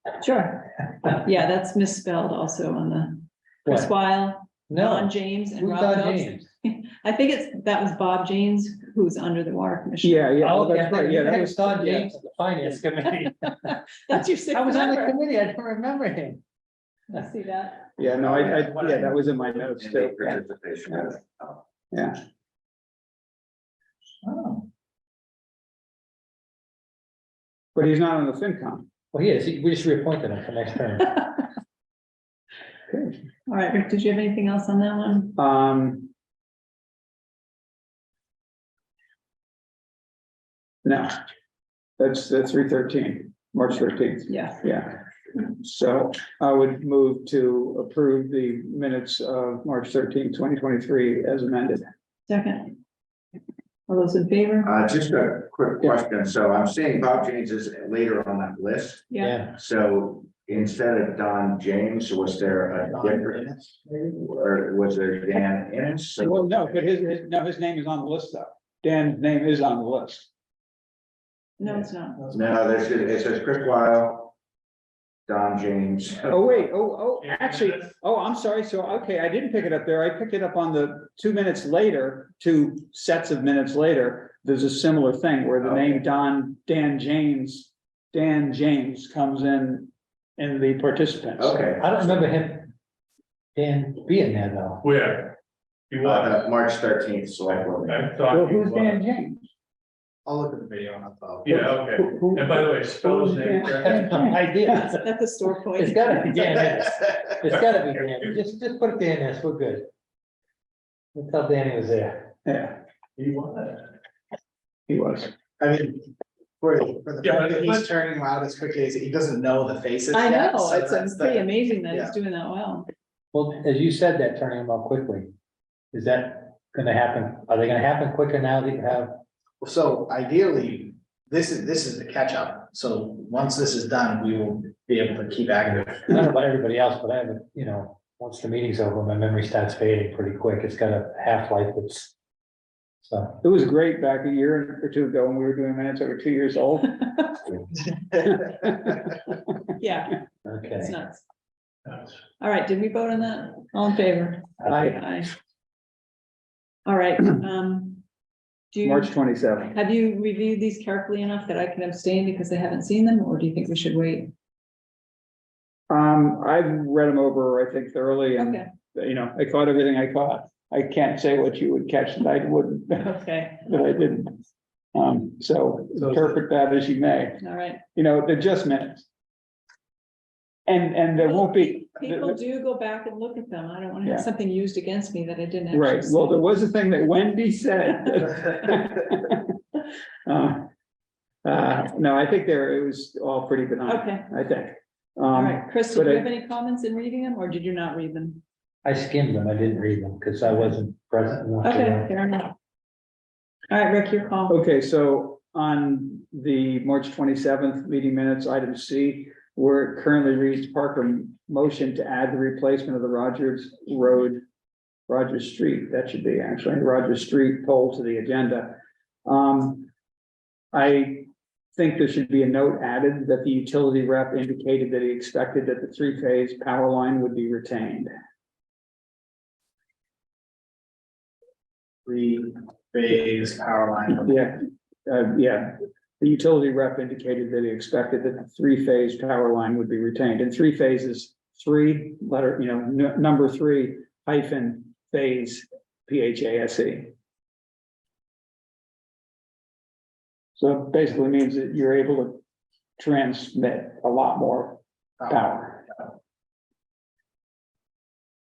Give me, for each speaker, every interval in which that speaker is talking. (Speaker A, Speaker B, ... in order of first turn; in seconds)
Speaker A: 0.2-10.4, 13.6-15.2, 17.1-17.9, 33.5-35.4, 44.3-44.6, 52.3-52.8, 53.9-54.7, 59.1-59.4, 71.6-72.3, 104.5-106.6, 120.1-122.9, 149.8-151.2, 152.4-155.3, 156.8-158.0, 158.7-159.1, 159.7-164.3, 168.4-168.7, 173.0-173.6, 177.4-177.8, 181.2-186.4, 193.9-194.2, 195.3-198.4, 201.6-202.5, 203.7-204.6
Speaker B: 3.6-3.9, 4.7-6.5, 10.4-13.7, 14.5-16.4, 29.1-31.3, 59.2-59.6, 91.8-92.7, 93.5-94.8, 98.3-99.4, 102.0-105.1, 105.7-109.9, 111.1-112.3, 123.3-125.3, 125.9-129.2, 136.1-142.1, 143.0-143.4, 150.5-150.9, 198.8-202.1
Speaker C: 10.0-12.2, 17.9-20.4, 21.9-22.2, 27.7-28.9, 32.9-33.2, 35.4-36.1, 40.8-41.1, 42.0-51.9, 66.2-70.3, 76.3-91.6, 103.0-104.8, 112.5-112.8, 114.9-115.3, 143.4-147.3, 148.2-149.2, 154.7-155.0, 158.8-159.7, 165.9-173.1, 173.6-174.4, 174.9-179.1, 180.7-182.4, 184.0-184.3, 185.7-189.6, 190.2-190.7, 191.4-196.3, 204.5-214.4, 215.1-219.9, 220.7-228.1, 234.2-247.1, 250.6-252.4, 253.0-255.9
Speaker D: 18.0-19.1, 19.7-21.6, 54.6-63.5, 64.1-66.7, 72.3-74.3, 75.3-76.7, 85.6-86.0, 91.4-92.2, 96.0-98.1
Speaker E: 24.2-24.6, 62.9-64.1, 100.2-101.7, 115.6-116.1, 116.6-122.1, 129.6-136.1, 232.1-234.4
Speaker F: 77.2-77.8, 94.8-95.4, 95.9-96.5, 97.6-99.0, 101.4-104.2, 113.2-113.9, 117.2-117.9